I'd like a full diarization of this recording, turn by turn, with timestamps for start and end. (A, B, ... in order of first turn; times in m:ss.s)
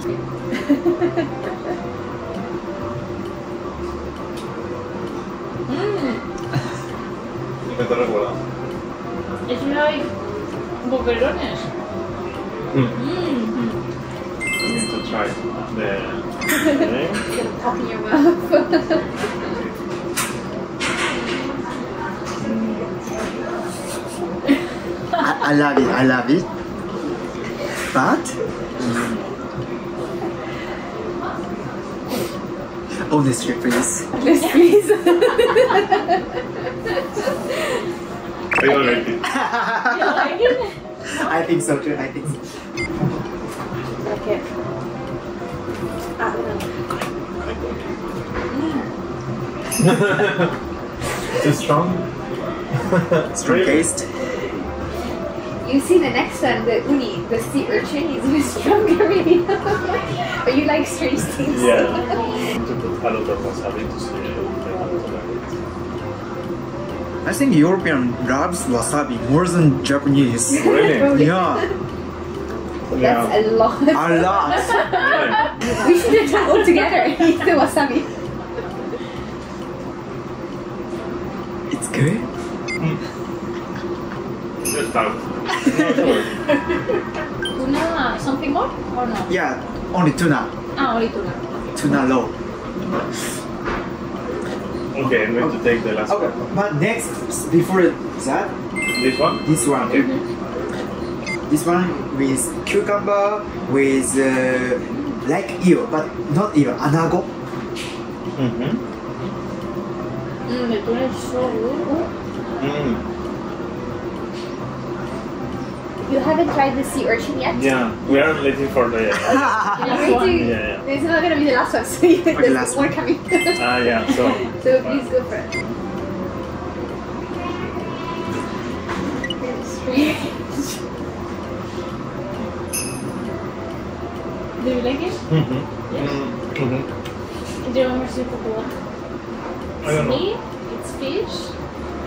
0:00.7-0:01.0 A
0:05.7-0:06.2 B
0:07.7-0:08.4 C
0:09.5-0:10.1 B
0:10.8-0:11.6 B
0:13.0-0:13.6 B
0:14.6-0:17.2 C
0:16.7-0:19.0 A
0:22.4-0:22.9 C
0:25.2-0:26.4 D
0:27.9-0:28.4 D
0:28.8-0:29.1 C
0:33.1-0:34.0 D
0:34.2-0:36.2 A
0:38.6-0:39.2 C
0:39.2-0:40.3 D
0:39.8-0:40.7 B
0:41.1-0:42.4 D
0:44.0-0:44.4 A
0:46.2-0:46.7 A
0:48.5-0:48.8 B
0:49.8-0:50.5 C
0:51.4-0:52.0 C
0:52.9-0:53.9 C
0:53.3-0:54.0 D
0:55.6-1:02.2 A
1:01.5-1:05.5 C
1:01.7-1:02.4 B
1:07.2-1:11.7 D
1:10.5-1:11.7 A
1:10.5-1:11.2 C
1:12.9-1:13.3 C
1:12.9-1:18.1 A
1:13.9-1:14.9 D
1:14.9-1:15.5 C
1:21.7-1:22.2 D
1:24.6-1:26.3 C
1:27.6-1:29.3 B
1:29.3-1:30.5 D
1:30.8-1:31.8 B
1:31.7-1:32.3 D
1:34.9-1:36.5 C
1:36.1-1:38.5 D
1:38.9-1:40.1 C
1:39.4-1:40.1 D
1:41.5-1:47.3 D
1:48.4-1:48.8 C
1:50.5-1:52.1 B
1:52.6-1:53.0 C
1:56.0-1:57.8 A
1:57.5-2:00.8 C
1:59.3-2:05.5 A
1:59.8-2:00.6 B
2:02.3-2:02.9 D
2:03.5-2:05.0 C
2:09.4-2:10.3 A
2:09.8-2:10.3 B
2:14.6-2:15.2 B
2:15.3-2:16.9 C
2:15.9-2:16.1 B
2:17.6-2:18.7 B
2:19.8-2:20.3 C
2:19.8-2:21.5 B